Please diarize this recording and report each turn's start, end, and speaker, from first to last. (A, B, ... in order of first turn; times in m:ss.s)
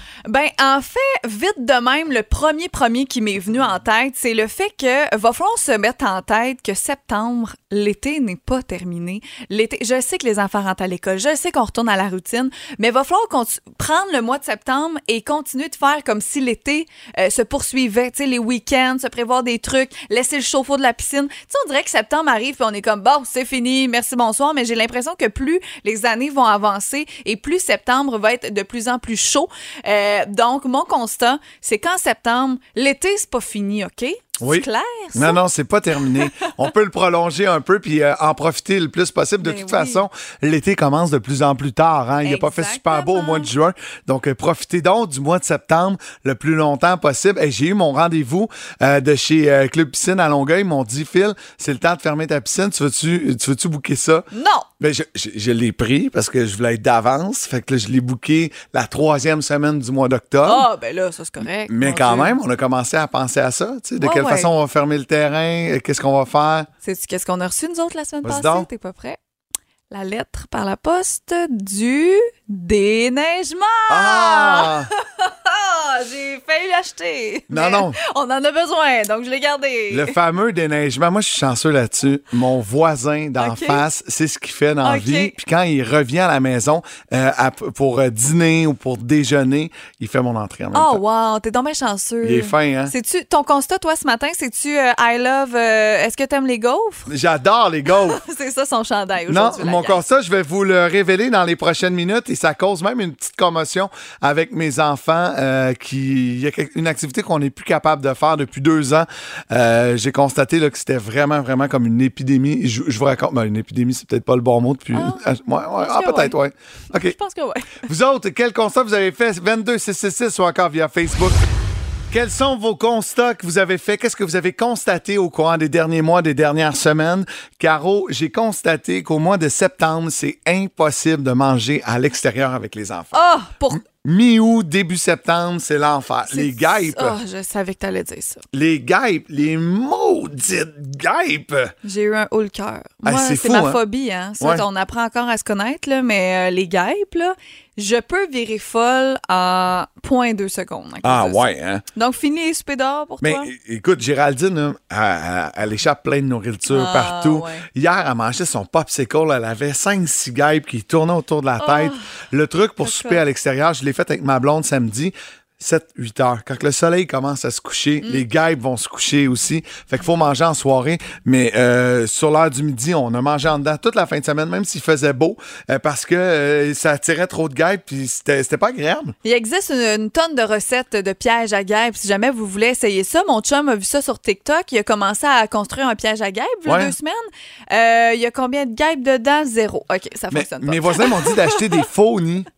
0:00.3-0:35.4 A
0:34.4-0:54.2 B
0:39.4-0:40.0 A
0:42.2-0:43.5 A
0:54.3-0:54.7 A
0:54.8-1:00.7 B
1:00.4-1:02.3 A
1:01.7-1:06.7 B
1:04.0-1:04.5 A
1:06.8-1:09.2 A
1:08.2-1:08.7 B
1:09.9-1:20.1 A
1:13.9-1:14.9 B
1:17.5-1:18.0 B
1:19.9-1:31.0 B
1:23.4-1:23.8 A
1:24.8-1:25.3 A
1:30.7-1:37.1 A
1:32.2-1:32.9 B
1:37.1-1:38.2 B
1:38.1-1:40.0 A
1:39.3-1:57.2 B
1:54.9-1:55.2 A
1:55.8-1:56.4 A
1:56.9-1:57.8 A
1:57.8-2:01.4 B
2:02.1-2:13.2 B
2:13.1-2:13.8 A
2:13.7-2:17.2 B
2:16.3-2:18.4 A
2:18.5-2:21.7 B
2:21.8-2:31.4 A
2:23.0-2:23.8 B
2:31.0-2:31.8 B
2:31.9-2:33.5 A
2:33.2-2:59.1 B
2:36.7-2:37.6 A
2:41.6-2:42.0 A
2:42.8-2:43.2 A
2:59.2-3:11.8 A
3:06.6-3:06.9 B
3:10.3-3:12.5 B